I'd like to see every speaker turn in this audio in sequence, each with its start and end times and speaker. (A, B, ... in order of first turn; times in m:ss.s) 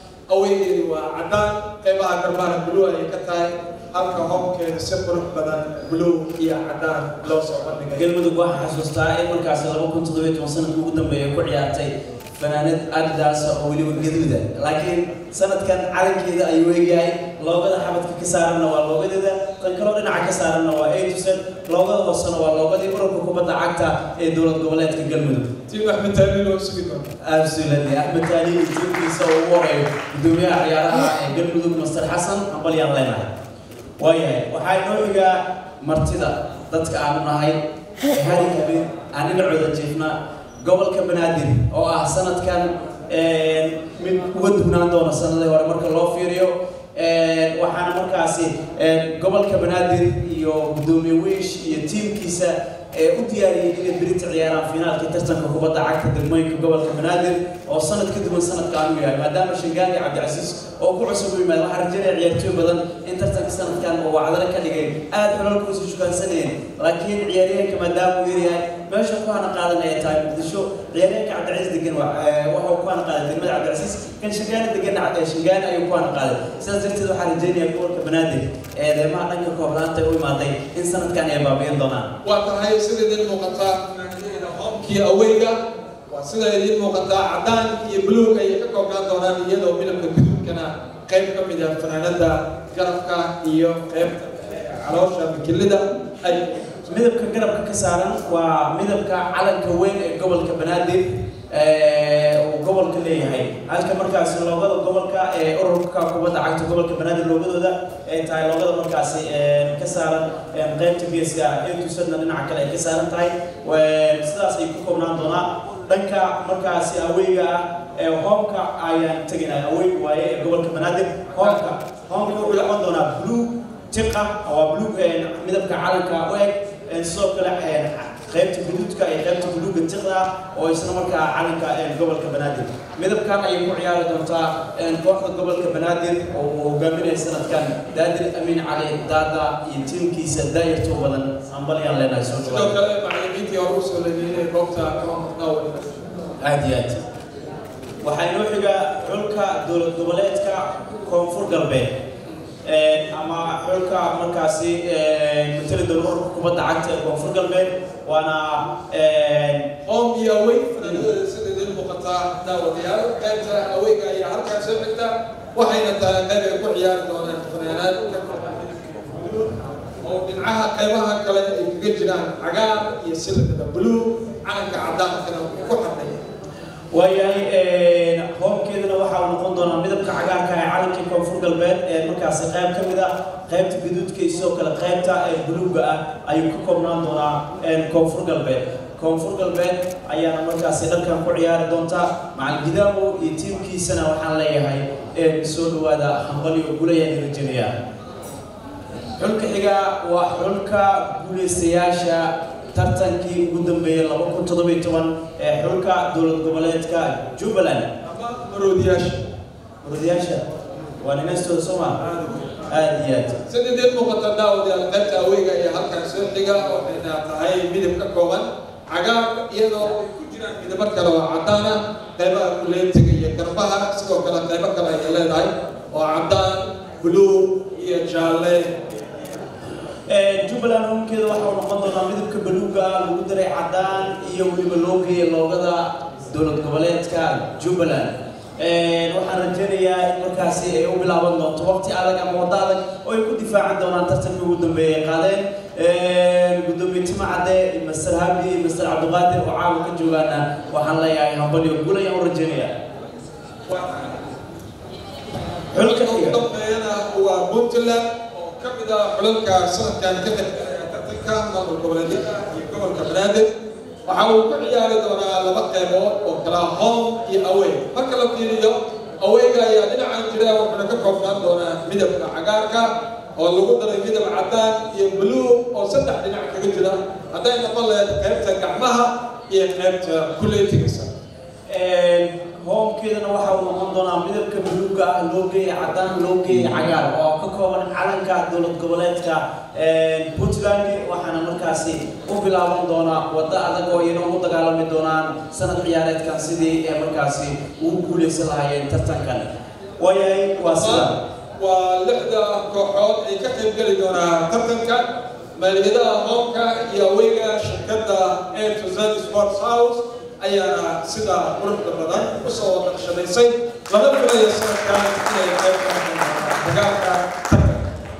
0:00.3-0:08.1 A
0:07.9-0:25.5 B
0:25.7-0:27.1 A
0:27.2-0:33.3 B
0:34.0-1:22.1 B
1:22.2-1:25.6 A
1:26.1-1:36.7 A
1:36.9-2:22.7 B
2:22.4-2:26.0 A
2:26.4-2:27.0 B
2:28.0-2:31.9 B
2:32.6-2:39.7 B
2:39.8-2:56.2 A
2:56.9-3:17.7 B
3:19.2-3:27.9 B
3:28.0-3:29.3 A
3:29.8-3:30.4 B
3:31.0-3:32.0 B
3:32.1-3:32.5 A
3:32.7-3:33.4 B
3:33.5-3:48.7 A
3:50.1-4:12.7 B
4:13.7-4:14.1 A
4:15.7-4:16.4 B
4:15.7-4:23.5 A
4:24.0-4:41.1 A
4:41.7-5:01.2 B
5:00.7-5:17.8 A